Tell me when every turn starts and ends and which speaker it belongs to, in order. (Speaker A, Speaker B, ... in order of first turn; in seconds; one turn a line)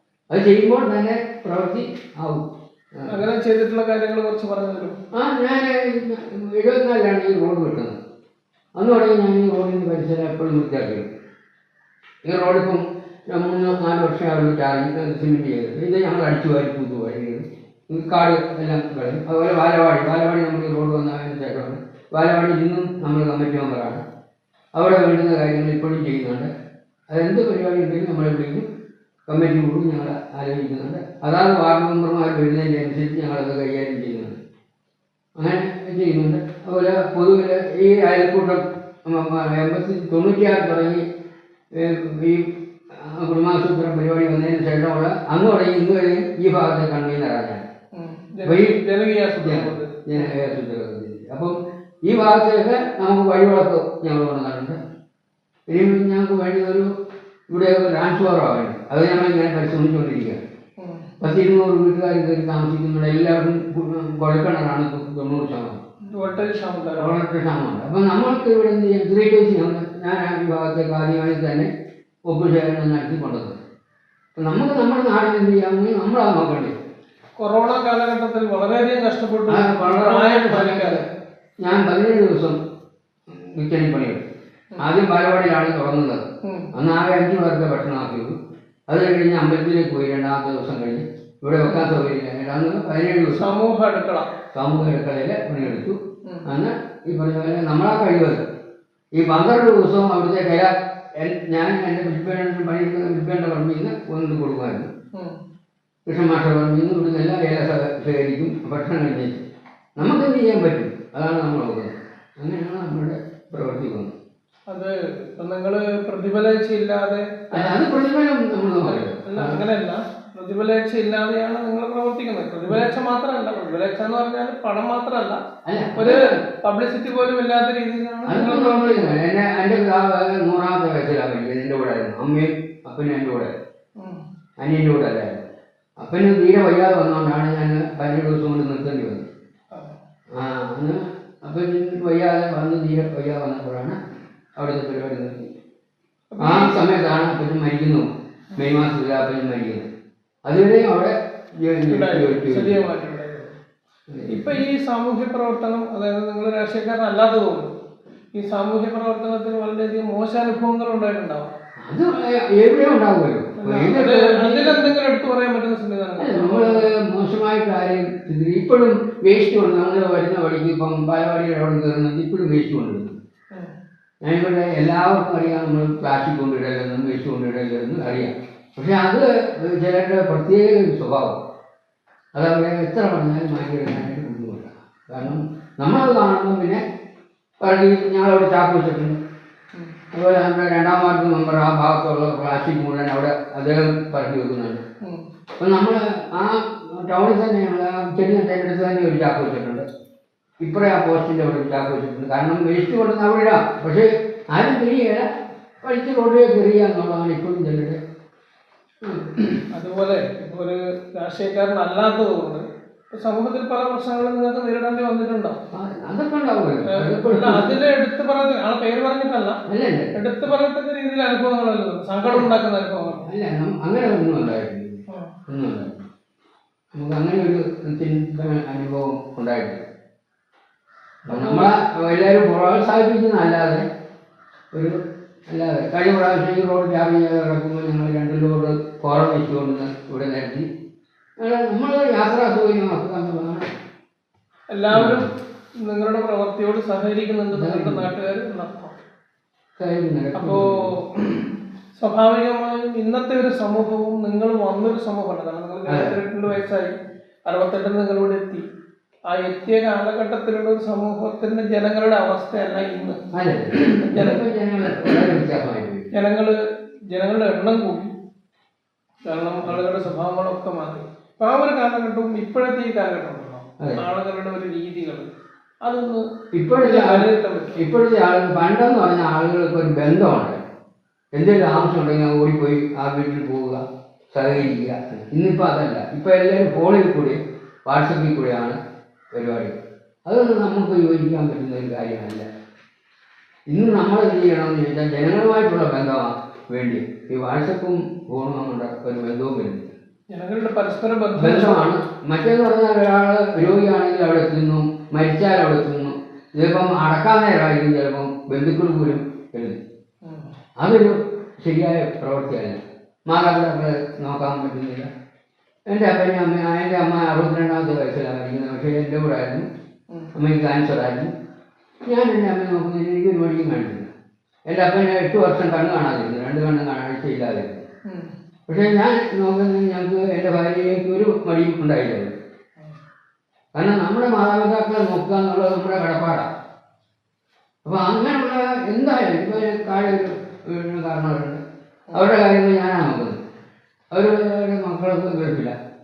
Speaker A: 0.3-3.3
Speaker B: 3.1-5.0
Speaker A: 5.1-8.0
Speaker A: 8.8-11.1
Speaker A: 12.2-24.0
Speaker A: 24.8-26.5
Speaker A: 27.1-28.6
Speaker A: 29.3-34.4
Speaker A: 35.4-41.0
Speaker A: 41.7-47.6
Speaker B: 48.0-50.4
Speaker A: 48.5-48.8
Speaker A: 49.4-54.8
Speaker A: 55.7-56.9
Speaker A: 57.5-60.4
Speaker B: 60.8-61.1
Speaker A: 61.2-65.8
Speaker B: 66.1-67.2
Speaker A: 67.0-71.7
Speaker A: 72.3-73.6
Speaker A: 74.4-76.8
Speaker B: 77.4-81.0
Speaker A: 79.5-81.0
Speaker A: 81.6-82.6
Speaker A: 83.3-84.2
Speaker A: 84.8-88.3
Speaker B: 86.4-86.7
Speaker A: 88.9-93.5
Speaker B: 91.7-91.9
Speaker B: 93.3-94.3
Speaker A: 94.5-98.5
Speaker A: 99.2-104.9
Speaker A: 106.1-109.4
Speaker A: 110.0-114.1
Speaker B: 114.7-117.8
Speaker A: 117.5-119.6
Speaker B: 118.9-125.4
Speaker A: 125.7-126.5
Speaker B: 126.0-129.2
Speaker A: 128.3-133.5
Speaker A: 134.6-135.4
Speaker A: 136.0-139.3
Speaker A: 140.3-144.0
Speaker A: 144.6-145.5
Speaker B: 146.3-146.8
Speaker A: 146.4-149.9
Speaker A: 150.4-152.8
Speaker B: 151.9-153.5
Speaker A: 154.1-154.6
Speaker B: 154.3-157.7
Speaker B: 158.3-161.5
Speaker A: 161.8-164.9
Speaker B: 163.6-166.9
Speaker A: 166.2-173.2
Speaker A: 174.2-181.4
Speaker A: 182.3-186.8
Speaker A: 187.6-189.2
Speaker A: 190.1-194.8
Speaker A: 195.6-199.8
Speaker A: 200.6-205.3
Speaker A: 205.8-208.0
Speaker A: 209.0-209.6
Speaker B: 209.7-215.6
Speaker A: 215.7-217.8
Speaker B: 216.9-219.6
Speaker A: 219.7-220.2
Speaker B: 220.2-223.3
Speaker A: 223.2-226.0
Speaker A: 226.9-229.8
Speaker A: 231.3-233.8
Speaker B: 231.3-231.7
Speaker A: 234.7-235.0
Speaker A: 235.5-240.7
Speaker A: 241.4-243.7
Speaker B: 244.7-245.3
Speaker A: 244.9-245.3
Speaker B: 245.8-248.9
Speaker A: 247.5-248.1
Speaker A: 249.8-250.9
Speaker B: 250.3-256.9
Speaker A: 255.9-256.2
Speaker B: 257.5-258.6
Speaker B: 259.3-263.2
Speaker A: 263.3-266.1
Speaker B: 263.8-265.3
Speaker B: 266.1-266.6
Speaker B: 267.1-268.1
Speaker B: 269.3-275.3
Speaker B: 275.8-276.2
Speaker A: 276.5-280.6
Speaker B: 276.8-277.8
Speaker A: 281.3-288.8
Speaker A: 289.3-292.5
Speaker A: 293.7-299.9
Speaker B: 300.3-301.9
Speaker A: 301.4-309.8
Speaker B: 310.2-310.5
Speaker A: 310.8-315.1
Speaker A: 315.9-319.7
Speaker A: 320.4-321.3
Speaker A: 322.1-324.1
Speaker A: 324.7-327.9
Speaker A: 328.7-332.4
Speaker A: 333.8-336.5
Speaker A: 337.8-341.6
Speaker A: 342.1-343.4
Speaker A: 344.1-345.8